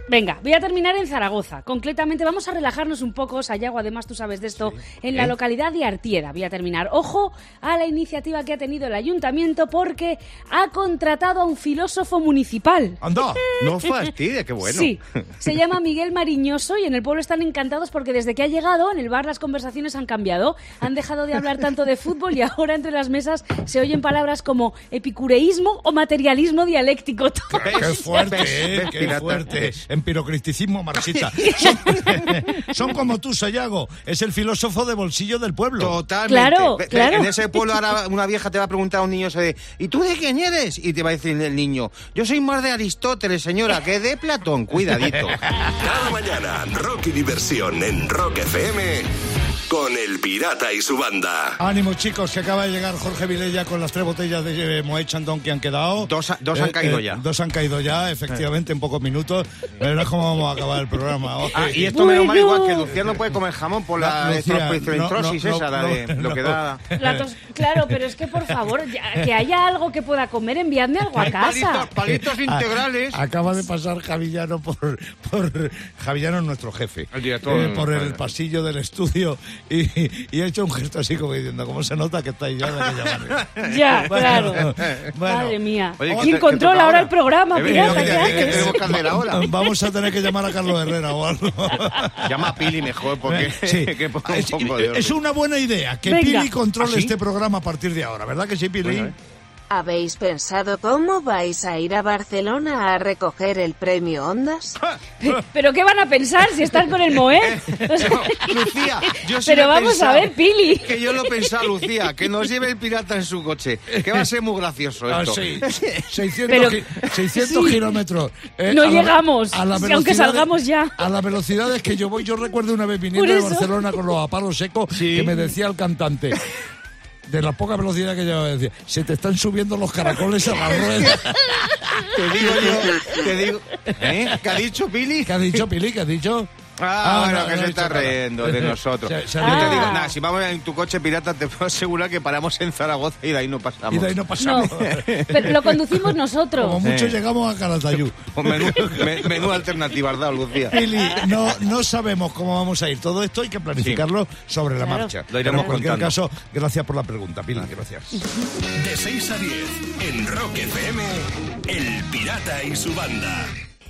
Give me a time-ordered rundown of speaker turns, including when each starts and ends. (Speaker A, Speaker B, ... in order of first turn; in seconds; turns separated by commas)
Speaker A: 0.1-14.1, Speaker B: 13.0-13.4, Speaker C: 13.6-15.6, Speaker A: 14.6-28.2, Speaker B: 27.5-36.0, Speaker C: 27.6-29.7, Speaker A: 31.4-32.2, Speaker C: 35.8-45.4, Speaker A: 36.3-37.7, Speaker B: 45.2-45.7, Speaker D: 45.8-49.1, Speaker D: 49.7-51.6, Speaker B: 51.6-61.9, Speaker C: 56.0-57.2, Speaker C: 61.5-66.9, Speaker A: 61.9-62.9, Speaker B: 64.0-68.0, Speaker A: 67.0-71.9, Speaker C: 71.2-73.2, Speaker B: 72.1-83.5, Speaker C: 77.1-78.2, Speaker C: 83.3-85.1, Speaker A: 83.6-88.9, Speaker B: 84.1-85.6, Speaker C: 86.0-89.5, Speaker B: 86.1-86.4, Speaker B: 87.6-99.1, Speaker C: 92.2-95.2, Speaker A: 96.1-96.5, Speaker C: 96.8-97.1, Speaker C: 98.8-99.1, Speaker E: 99.7-104.8, Speaker A: 105.2-111.7, Speaker C: 107.3-116.1, Speaker B: 113.9-114.3, Speaker B: 115.1-126.4, Speaker A: 116.5-116.8, Speaker A: 117.3-117.9, Speaker A: 118.7-121.0, Speaker A: 123.1-123.8, Speaker C: 124.9-125.5, Speaker B: 127.3-132.5, Speaker C: 132.1-135.6, Speaker B: 134.0-134.3, Speaker B: 135.2-139.9, Speaker C: 136.8-145.8, Speaker A: 139.4-140.1, Speaker B: 143.9-145.7, Speaker A: 144.4-144.8, Speaker A: 145.3-146.8, Speaker B: 146.6-149.6, Speaker C: 146.8-147.2, Speaker C: 148.4-150.8, Speaker B: 150.7-158.2, Speaker C: 153.8-154.0, Speaker A: 154.8-155.7, Speaker C: 155.3-156.2, Speaker D: 158.8-163.5